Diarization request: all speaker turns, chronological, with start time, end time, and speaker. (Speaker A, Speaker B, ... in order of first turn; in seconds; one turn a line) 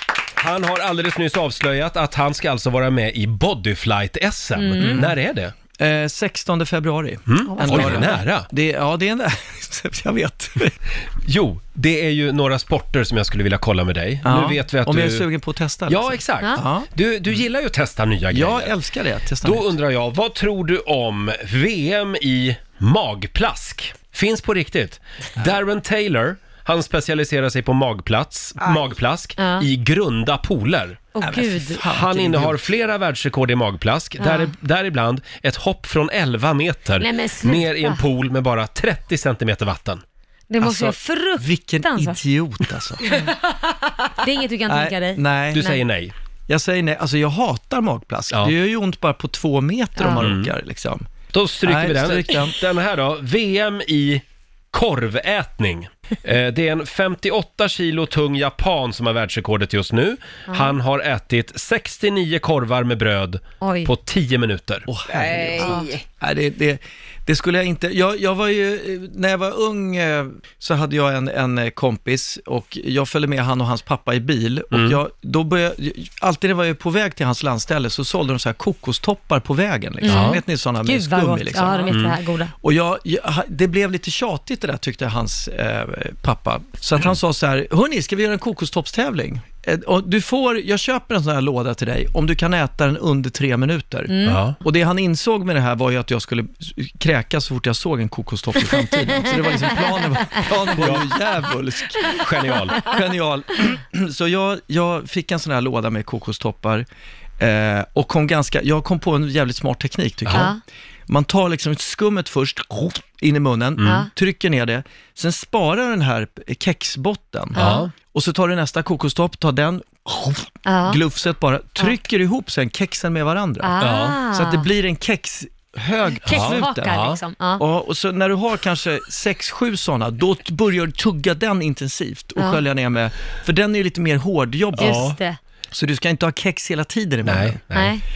Speaker A: 0.4-5.5
Speaker B: 4.5-5.1
Speaker C: 4.8-5.1
Speaker C: 5.8-10.7
Speaker A: 7.3-8.5
Speaker B: 7.5-8.2
Speaker A: 11.2-15.2
Speaker C: 14.2-16.9
Speaker A: 15.9-18.7
Speaker C: 18.3-19.7
Speaker A: 19.4-31.0
Speaker B: 29.4-29.7
Speaker B: 31.1-31.9
Speaker C: 31.2-32.6
Speaker A: 31.9-40.0
Speaker B: 34.2-34.5
Speaker B: 37.0-38.0
Speaker B: 40.5-42.2
Speaker C: 40.6-43.1
Speaker B: 43.0-45.8
Speaker C: 44.7-45.6
Speaker A: 45.5-46.1
Speaker C: 46.5-51.0
Speaker A: 50.2-50.5
Speaker A: 51.3-64.9
Speaker C: 51.6-52.6
Speaker B: 60.5-60.7
Speaker B: 63.6-63.9
Speaker C: 64.9-82.0
Speaker B: 65.3-66.0
Speaker A: 74.7-75.0
Speaker B: 80.0-82.5
Speaker A: 80.1-80.4
Speaker A: 81.9-82.1
Speaker C: 82.6-106.8
Speaker B: 94.1-94.4
Speaker A: 94.2-94.6
Speaker B: 99.3-99.8
Speaker A: 100.8-101.0
Speaker A: 102.1-102.8
Speaker C: 107.4-110.5
Speaker A: 110.2-110.5
Speaker B: 110.3-110.6
Speaker C: 111.1-123.8
Speaker A: 113.8-114.0
Speaker B: 113.8-114.1
Speaker B: 117.5-117.9
Speaker A: 117.5-117.9
Speaker B: 120.7-121.0
Speaker B: 123.6-124.7
Speaker A: 123.8-124.2
Speaker C: 124.3-127.0
Speaker B: 126.1-127.6
Speaker A: 126.3-127.2
Speaker C: 127.6-135.1
Speaker B: 132.4-132.6
Speaker A: 134.8-135.2
Speaker B: 134.8-135.4
Speaker C: 135.7-137.6
Speaker A: 137.2-137.9
Speaker B: 137.7-138.0